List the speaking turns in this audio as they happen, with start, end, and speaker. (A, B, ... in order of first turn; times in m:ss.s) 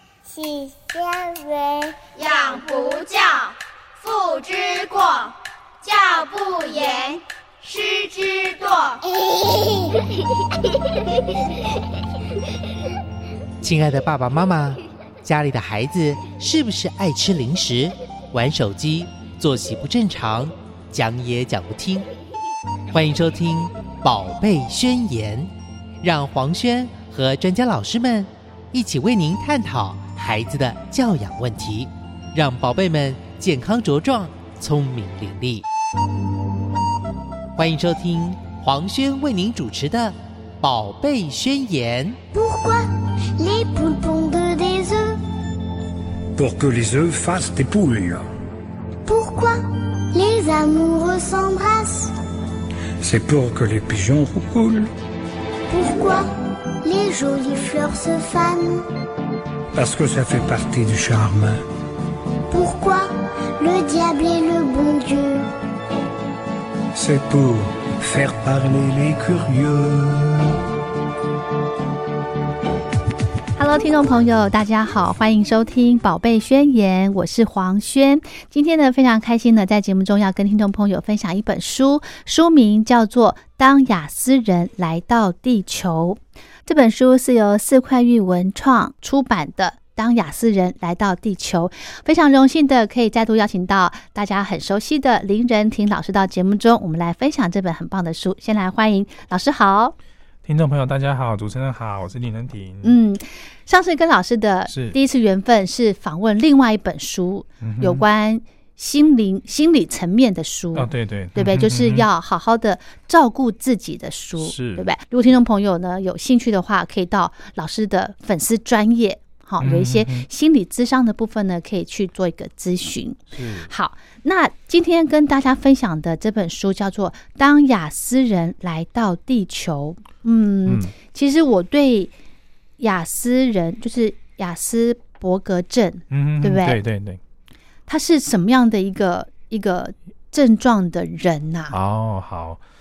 0:00.2-0:02.0 A
0:02.2-0:09.0 B
0:09.2-0:09.9 A
0:13.6-0:22.0 C
0:22.9-0:35.6 C
0:37.6-0:42.2 C
0:42.3-0:45.2 A
0:46.3-0:48.3 D
0:49.0-0:52.1 A
0:53.0-0:54.9 D
0:55.7-0:56.3 A
0:56.8-0:58.8 A
0:59.7-1:01.6 D
1:02.5-1:05.5 A
1:06.9-1:10.6 D
1:13.6-1:39.9 E
1:40.4-1:43.0 F
1:42.8-2:12.1 E
1:44.7-1:45.0 F
1:47.6-1:48.0 F
1:50.7-1:52.1 F
1:54.4-1:54.9 F
1:59.6-2:00.3 F
2:03.3-2:03.7 F
2:10.6-2:10.9 F
2:12.8-2:16.8 E
2:16.1-2:17.2 F
2:17.9-2:21.7 E
2:21.7-2:22.6 F